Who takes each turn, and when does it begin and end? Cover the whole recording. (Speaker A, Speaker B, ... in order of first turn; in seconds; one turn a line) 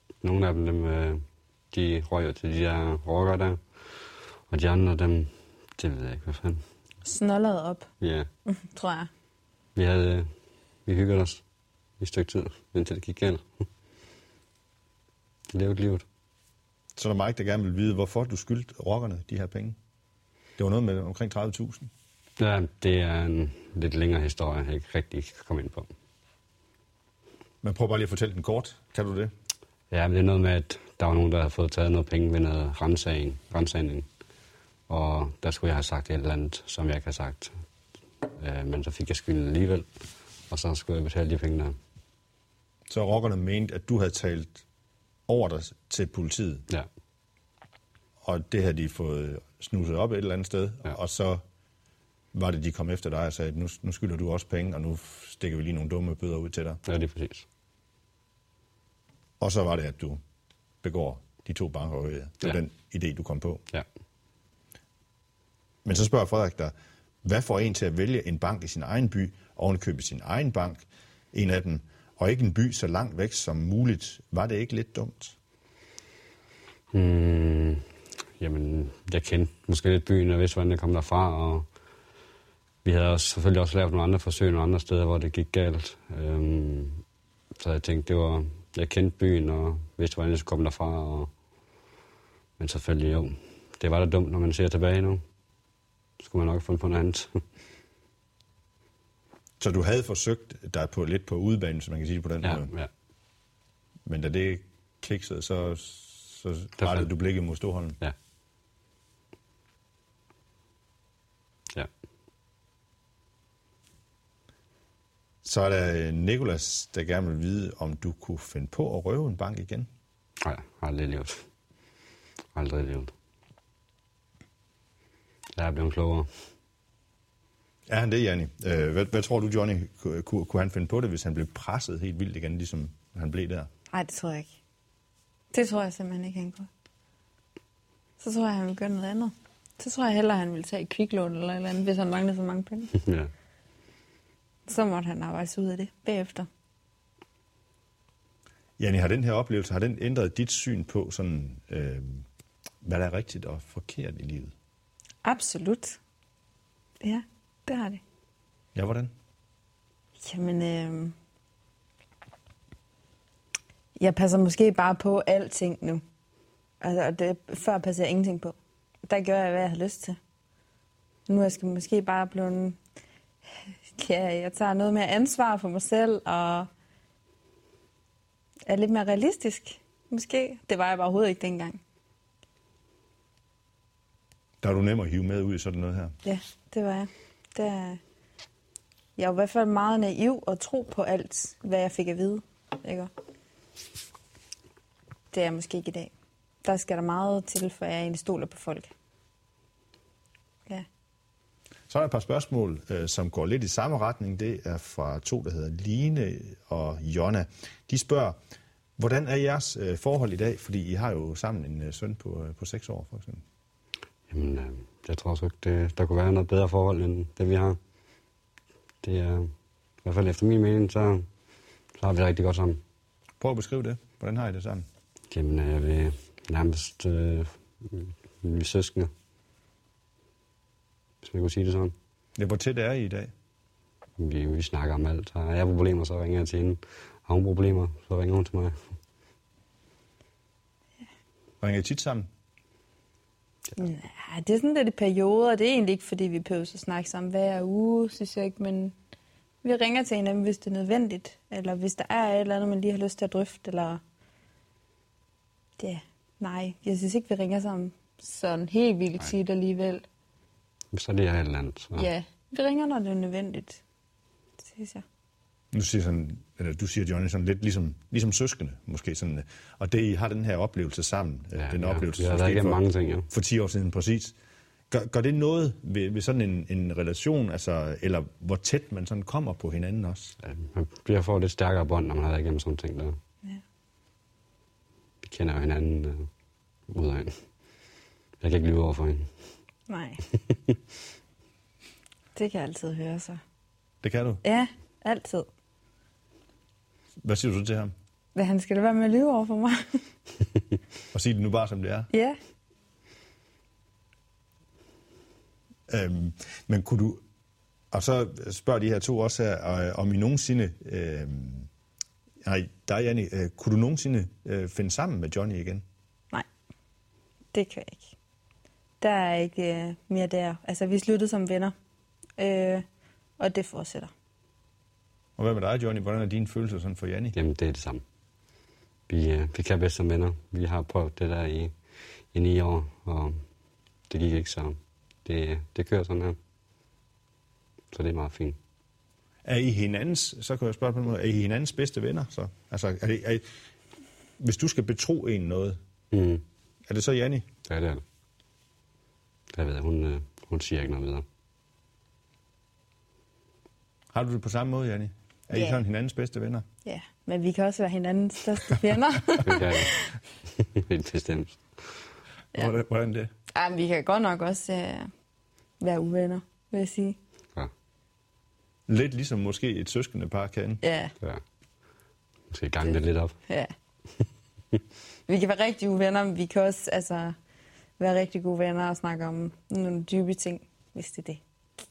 Speaker A: 0.2-6.7
Speaker B: 7.0-7.9
Speaker A: 8.0-8.3
Speaker B: 8.5-9.1
Speaker A: 9.8-10.3
Speaker A: 10.9-11.4
Speaker A: 12.0-13.4
Speaker A: 15.5-16.1
Speaker C: 17.0-19.8
Speaker C: 20.6-21.9
Speaker A: 22.4-25.9
Speaker C: 27.6-29.3
Speaker A: 29.9-34.1
Speaker A: 34.9-37.6
Speaker A: 38.4-39.9
Speaker A: 40.5-41.8
Speaker C: 42.9-44.6
Speaker C: 45.3-46.6
Speaker C: 48.2-51.4
Speaker C: 52.3-56.8
Speaker A: 56.9-57.5
Speaker C: 59.4-60.2
Speaker C: 60.8-63.6
Speaker C: 65.8-66.7
Speaker C: 67.2-75.4
Speaker A: 76.9-81.7
Speaker A: 82.8-87.0
Speaker A: 87.6-91.3
Speaker A: 92.6-95.2
Speaker A: 96.2-97.4
Speaker C: 99.6-102.7
Speaker A: 102.4-102.9
Speaker C: 104.1-108.0
Speaker A: 106.8-107.1
Speaker C: 115.4-119.9
Speaker A: 120.4-121.5
Speaker A: 122.5-123.1
Speaker A: 125.6-126.3
Speaker C: 127.9-133.7
Speaker B: 133.9-134.5
Speaker B: 135.5-136.7
Speaker B: 138.2-142.9
Speaker A: 143.1-143.3
Speaker B: 144.7-146.5
Speaker C: 148.8-152.2
Speaker C: 152.8-154.5
Speaker B: 155.2-156.0
Speaker B: 157.0-158.0
Speaker C: 158.8-159.1
Speaker B: 160.2-161.2
Speaker B: 164.0-166.0
Speaker B: 166.8-168.6
Speaker B: 169.1-170.2
Speaker B: 171.3-172.8
Speaker B: 173.9-176.7
Speaker B: 178.7-181.8
Speaker C: 184.6-186.2
Speaker B: 186.2-188.0
Speaker B: 189.2-193.1
Speaker B: 195.3-196.1
Speaker B: 196.6-198.9
Speaker C: 201.9-208.4
Speaker C: 209.0-213.4
Speaker A: 214.3-217.8
Speaker A: 219.0-219.5
Speaker A: 220.0-221.3
Speaker A: 222.0-222.8
Speaker C: 223.4-224.9
Speaker A: 225.3-229.1
Speaker A: 231.2-231.9
Speaker C: 232.4-233.3
Speaker A: 234.2-238.9
Speaker C: 241.6-242.3
Speaker B: 243.8-248.9
Speaker B: 249.6-254.0
Speaker B: 255.8-260.0
Speaker A: 260.9-262.1
Speaker B: 261.9-263.8
Speaker B: 264.6-265.0
Speaker C: 265.7-274.4
Speaker A: 271.6-273.3
Speaker C: 274.9-280.4
Speaker A: 280.4-283.2
Speaker A: 285.2-286.3
Speaker A: 286.9-287.5
Speaker A: 288.4-289.3
Speaker B: 289.9-290.2
Speaker B: 292.4-293.4
Speaker C: 294.0-294.4
Speaker B: 294.4-295.5
Speaker C: 297.2-297.9
Speaker B: 298.4-300.0
Speaker C: 301.1-302.1
Speaker B: 302.1-302.4
Speaker C: 305.9-307.2
Speaker C: 307.9-311.7
Speaker C: 312.4-315.8
Speaker B: 317.5-318.1
Speaker B: 319.0-321.7
Speaker B: 322.4-322.9
Speaker B: 323.4-324.1
Speaker C: 325.4-327.3
Speaker A: 327.3-328.0
Speaker A: 329.1-331.8
Speaker A: 332.3-333.4
Speaker A: 334.1-336.4
Speaker A: 337.9-338.6
Speaker C: 339.4-343.4
Speaker C: 344.4-345.8
Speaker A: 346.1-346.4
Speaker C: 346.9-347.5
Speaker A: 347.7-348.0
Speaker A: 349.5-351.2
Speaker C: 354.1-356.6
Speaker B: 355.5-355.8
Speaker B: 356.9-359.9
Speaker A: 359.4-360.0
Speaker A: 360.6-362.1
Speaker C: 362.5-363.3
Speaker B: 363.5-365.1
Speaker B: 365.8-367.2
Speaker C: 368.9-370.8
Speaker B: 370.8-371.1
Speaker A: 372.5-373.4
Speaker B: 375.3-377.4
Speaker B: 378.0-381.4